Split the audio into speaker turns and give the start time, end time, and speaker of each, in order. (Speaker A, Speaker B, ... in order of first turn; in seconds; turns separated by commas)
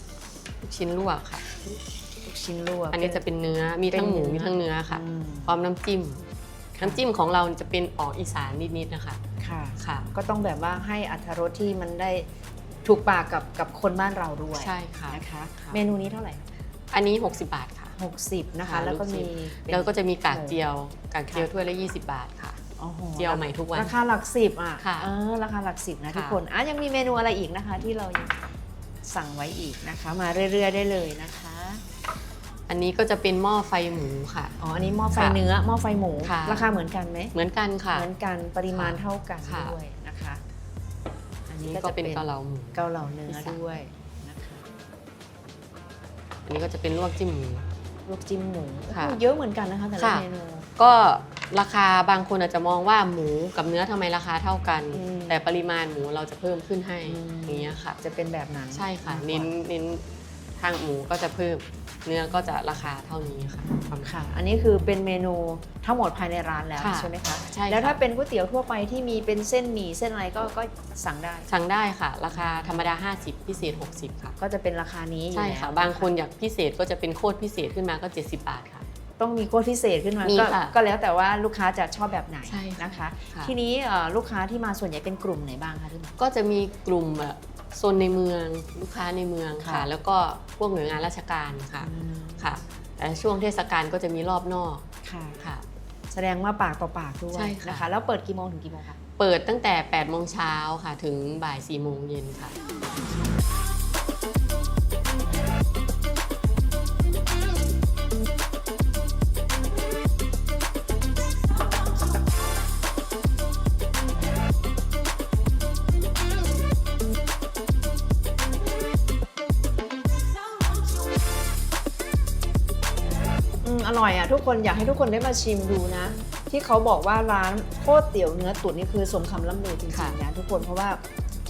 Speaker A: 0.6-1.6, Speaker B: 2.2-3.2, Speaker A: 2.9-6.2, Speaker B: 3.9-5.6, Speaker A: 6.8-9.2, Speaker B: 9.4-12.3, Speaker A: 9.8-10.1, Speaker B: 12.8-16.4, Speaker A: 14.5-15.8, Speaker A: 16.9-17.9, Speaker B: 18.0-20.6, Speaker A: 18.7-22.6, Speaker B: 22.8-28.4, Speaker A: 23.2-24.0, Speaker A: 24.8-25.1, Speaker A: 26.1-26.4, Speaker B: 29.0-31.8, Speaker A: 32.7-34.6, Speaker B: 34.6-37.3, Speaker A: 35.1-35.4, Speaker A: 36.2-36.7, Speaker A: 37.3-38.1, Speaker B: 37.9-40.4, Speaker A: 38.7-39.8, Speaker B: 41.5-44.6, Speaker A: 41.7-43.6, Speaker A: 46.5-47.7, Speaker B: 48.1-50.7, Speaker A: 48.9-49.2, Speaker A: 50.0-50.2, Speaker A: 50.8-58.0, Speaker B: 54.9-55.5, Speaker B: 57.1-59.5, Speaker A: 58.7-60.0, Speaker A: 60.6-64.1, Speaker B: 64.0-71.5, Speaker A: 66.8-68.0, Speaker A: 71.5-74.3, Speaker B: 72.3-73.0, Speaker B: 74.4-76.1, Speaker A: 75.3-78.9, Speaker B: 79.2-86.2, Speaker A: 80.2-80.8, Speaker A: 82.5-83.5, Speaker A: 86.2-94.9, Speaker B: 89.6-89.9, Speaker B: 91.8-92.6, Speaker B: 95.0-95.4, Speaker B: 96.1-99.0, Speaker A: 97.3-97.9, Speaker A: 99.2-102.6, Speaker B: 123.6-131.0, Speaker A: 129.9-130.2